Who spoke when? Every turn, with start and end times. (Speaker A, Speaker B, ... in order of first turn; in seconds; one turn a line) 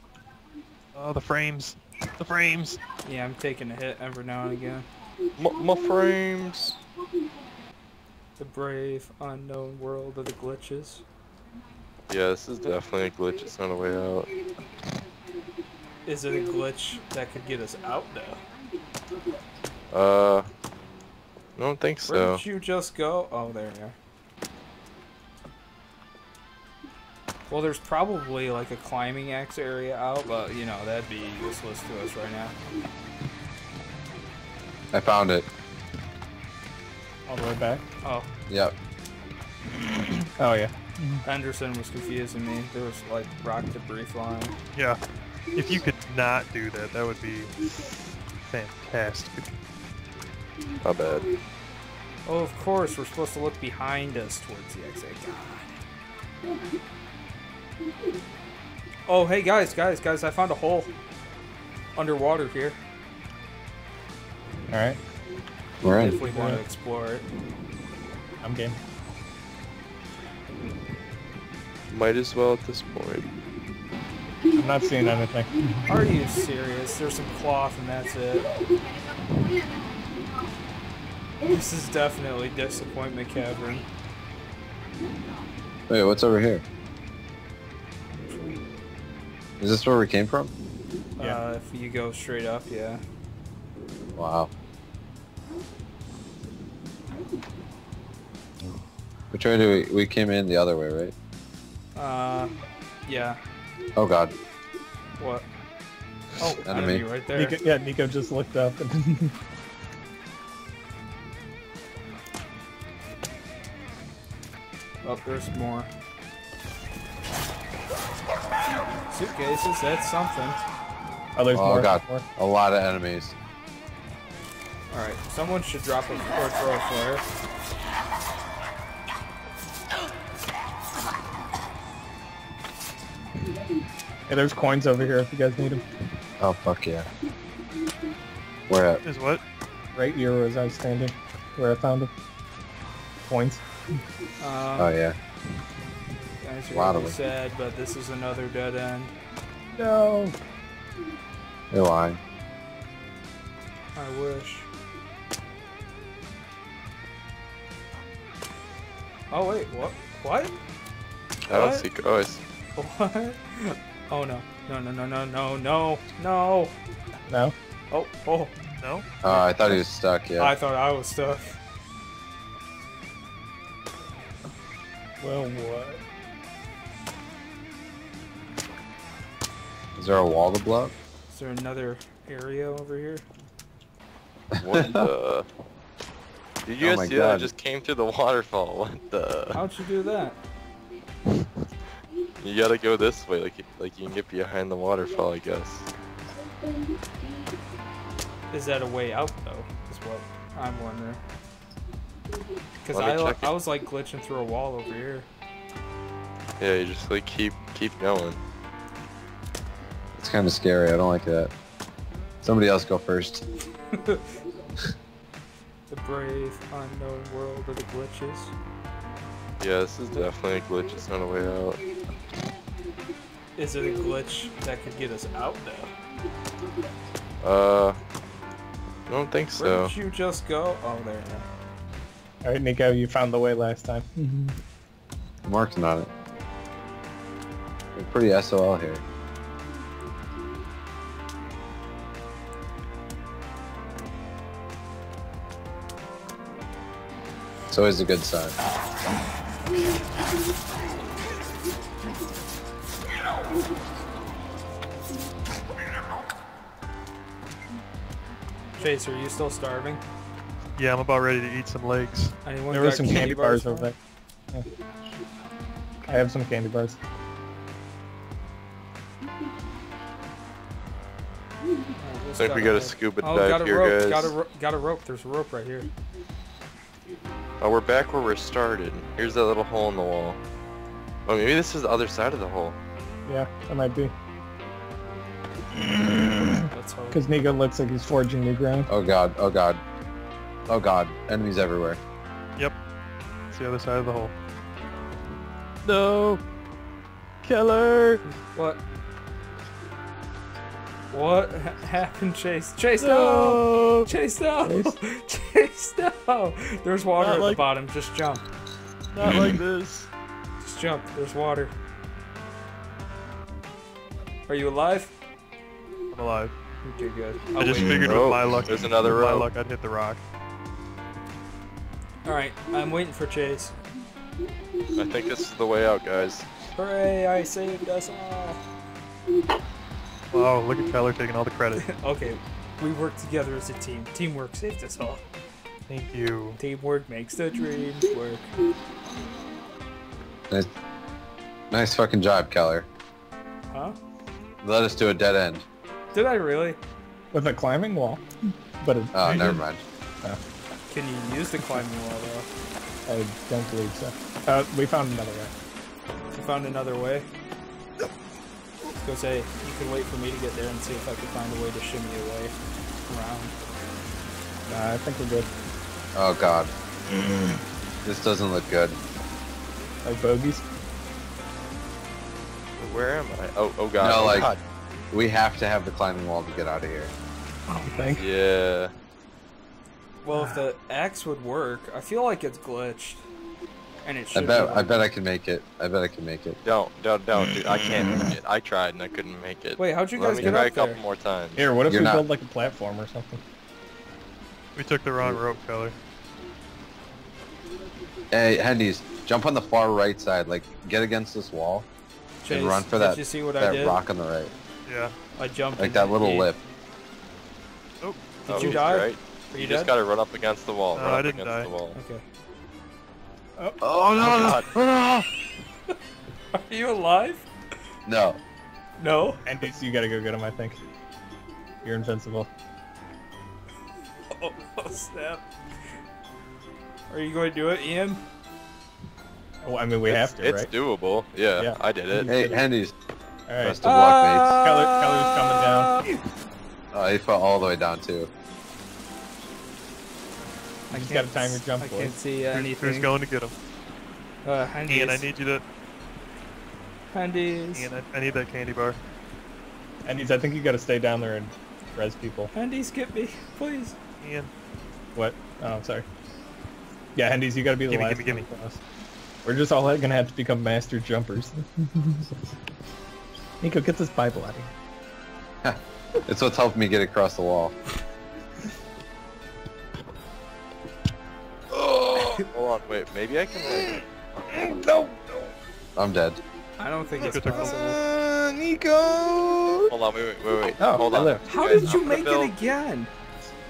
Speaker A: 0.9-2.8
Speaker B: 3.0-4.9
Speaker C: 5.4-6.8
Speaker B: 8.4-11.0
Speaker C: 12.1-14.3
Speaker B: 16.1-18.4
Speaker C: 19.9-20.5
Speaker C: 21.6-22.4
Speaker B: 22.1-24.0
Speaker B: 27.5-32.5
Speaker D: 34.9-35.5
Speaker E: 37.3-37.8
Speaker D: 38.5-38.8
Speaker E: 40.4-41.2
Speaker B: 41.2-44.5
Speaker A: 44.7-45.0
Speaker A: 45.5-47.5
Speaker A: 48.5-49.5
Speaker C: 50.8-51.3
Speaker B: 52.2-55.8
Speaker B: 59.1-60.9
Speaker B: 61.9-62.8
Speaker E: 64.7-65.0
Speaker D: 65.8-66.2
Speaker B: 66.0-67.3
Speaker E: 66.2-66.6
Speaker E: 68.4-68.8
Speaker C: 71.9-73.3
Speaker E: 74.5-75.8
Speaker B: 75.9-78.5
Speaker B: 81.4-83.9
Speaker D: 85.9-86.6
Speaker B: 88.3-88.6
Speaker D: 89.6-90.5
Speaker B: 91.2-93.0
Speaker D: 94.2-94.5
Speaker D: 99.3-101.1
Speaker B: 101.9-102.5
Speaker B: 103.0-103.4
Speaker D: 104.0-104.3
Speaker B: 105.2-105.5
Speaker B: 106.4-107.6
Speaker D: 106.6-107.0
Speaker E: 107.3-109.3
Speaker B: 115.0-115.9
Speaker B: 119.1-120.6
Speaker E: 121.3-122.2
Speaker D: 121.5-123.3
Speaker B: 124.9-127.2
Speaker E: 134.3-135.8
Speaker D: 136.4-137.1
Speaker D: 138.7-139.0
Speaker A: 139.0-139.4
Speaker E: 139.9-142.1
Speaker E: 143.2-143.6
Speaker B: 144.4-144.9
Speaker D: 144.8-145.2
Speaker B: 146.4-149.1
Speaker D: 146.7-147.1
Speaker E: 149.7-150.3
Speaker D: 151.7-152.2
Speaker B: 153.9-154.7
Speaker B: 159.3-160.5
Speaker C: 161.5-162.4
Speaker B: 161.5-161.8
Speaker B: 162.8-166.7
Speaker E: 167.3-167.5
Speaker B: 167.9-168.5
Speaker A: 168.8-169.1
Speaker D: 169.2-170.5
Speaker B: 170.4-171.6
Speaker E: 175.2-176.0
Speaker D: 180.0-180.9
Speaker B: 181.3-183.2
Speaker C: 184.6-185.4
Speaker D: 184.8-185.1
Speaker C: 186.7-189.6
Speaker D: 186.8-187.5
Speaker B: 189.5-190.4
Speaker C: 192.4-195.9
Speaker B: 198.5-201.2
Speaker B: 202.8-205.3
Speaker C: 202.9-203.5
Speaker C: 206.6-208.4
Speaker D: 210.2-211.5
Speaker D: 212.4-213.4
Speaker B: 213.9-214.2
Speaker B: 215.9-218.5
Speaker C: 219.6-221.8
Speaker B: 223.6-225.9
Speaker C: 227.4-228.0
Speaker C: 229.1-229.9
Speaker B: 229.6-231.5
Speaker E: 232.4-234.6
Speaker D: 235.4-236.1
Speaker D: 237.9-239.0
Speaker D: 247.7-248.6
Speaker B: 258.8-260.0
Speaker A: 260.8-262.3
Speaker B: 262.4-263.9
Speaker E: 262.7-263.9
Speaker E: 266.1-267.0
Speaker B: 272.0-275.9
Speaker C: 272.4-274.3
Speaker C: 277.6-280.4
Speaker C: 281.2-282.8
Speaker E: 283.2-284.1
Speaker E: 285.8-288.9
Speaker B: 286.7-287.2
Speaker D: 288.9-289.8
Speaker D: 290.7-292.0
Speaker A: 293.5-294.3
Speaker C: 295.9-296.4
Speaker C: 297.5-298.2
Speaker B: 298.3-298.8
Speaker B: 301.1-308.4
Speaker C: 303.0-304.1
Speaker C: 307.2-307.5
Speaker C: 309.1-310.1
Speaker B: 310.6-311.7
Speaker B: 314.5-315.1
Speaker A: 316.1-316.5
Speaker B: 316.8-318.1
Speaker A: 317.6-320.2
Speaker C: 317.8-319.5
Speaker B: 322.2-323.7
Speaker C: 324.9-326.5
Speaker B: 326.8-328.6
Speaker A: 330.3-331.8
Speaker B: 331.8-335.2
Speaker A: 335.9-336.6
Speaker B: 336.6-338.5
Speaker D: 341.7-342.9
Speaker B: 343.7-343.9
Speaker D: 344.6-345.6
Speaker B: 346.1-346.8
Speaker E: 347.3-349.6
Speaker D: 349.1-349.8
Speaker B: 350.9-352.5
Speaker E: 353.1-355.5
Speaker B: 356.3-357.3
Speaker B: 358.9-363.5
Speaker E: 364.7-365.5
Speaker D: 366.1-366.7
Speaker D: 368.0-369.0
Speaker E: 370.0-370.6
Speaker C: 372.8-374.6
Speaker D: 374.0-374.5
Speaker D: 375.1-377.1
Speaker B: 377.7-378.1
Speaker E: 377.8-378.2
Speaker C: 378.1-378.9
Speaker B: 380.2-383.2
Speaker E: 380.3-380.6
Speaker B: 384.0-385.0
Speaker D: 384.3-386.6
Speaker C: 386.6-391.6
Speaker B: 389.8-391.0
Speaker E: 391.6-393.4
Speaker D: 391.9-392.2
Speaker A: 394.7-396.0
Speaker D: 398.3-401.9
Speaker B: 402.4-404.0
Speaker D: 402.5-404.5
Speaker A: 404.9-405.1
Speaker B: 405.3-406.5
Speaker D: 405.8-406.6
Speaker A: 408.0-408.8
Speaker B: 408.4-409.9
Speaker C: 408.5-412.0
Speaker A: 410.9-411.7
Speaker B: 411.9-412.2
Speaker D: 413.8-415.2
Speaker C: 414.2-414.7
Speaker B: 416.5-417.4
Speaker D: 418.1-418.4
Speaker B: 419.0-419.4
Speaker E: 419.4-420.8
Speaker E: 421.8-422.5
Speaker B: 424.3-425.5
Speaker B: 427.1-428.2
Speaker E: 429.6-430.7
Speaker C: 430.1-432.4
Speaker E: 431.6-432.6
Speaker D: 432.3-432.9
Speaker E: 433.5-433.8
Speaker D: 433.6-434.6
Speaker B: 433.8-436.1
Speaker E: 434.6-435.9
Speaker D: 436.9-438.3
Speaker B: 440.9-443.1
Speaker E: 440.9-442.1
Speaker A: 442.5-443.5
Speaker B: 444.4-445.3
Speaker A: 444.9-445.6
Speaker B: 447.1-447.9
Speaker A: 447.7-449.0
Speaker E: 450.0-452.5
Speaker B: 452.5-454.0
Speaker A: 454.2-454.5
Speaker E: 455.1-456.1
Speaker E: 457.1-458.8
Speaker A: 457.9-458.5
Speaker E: 459.4-462.4
Speaker E: 463.6-464.7
Speaker D: 465.6-467.8
Speaker E: 471.7-472.5
Speaker C: 472.4-474.0
Speaker E: 473.6-475.5
Speaker D: 475.9-476.4
Speaker B: 476.8-478.0
Speaker A: 477.2-477.8
Speaker E: 477.5-479.9
Speaker C: 479.9-482.5
Speaker E: 480.8-481.9
Speaker B: 481.4-483.1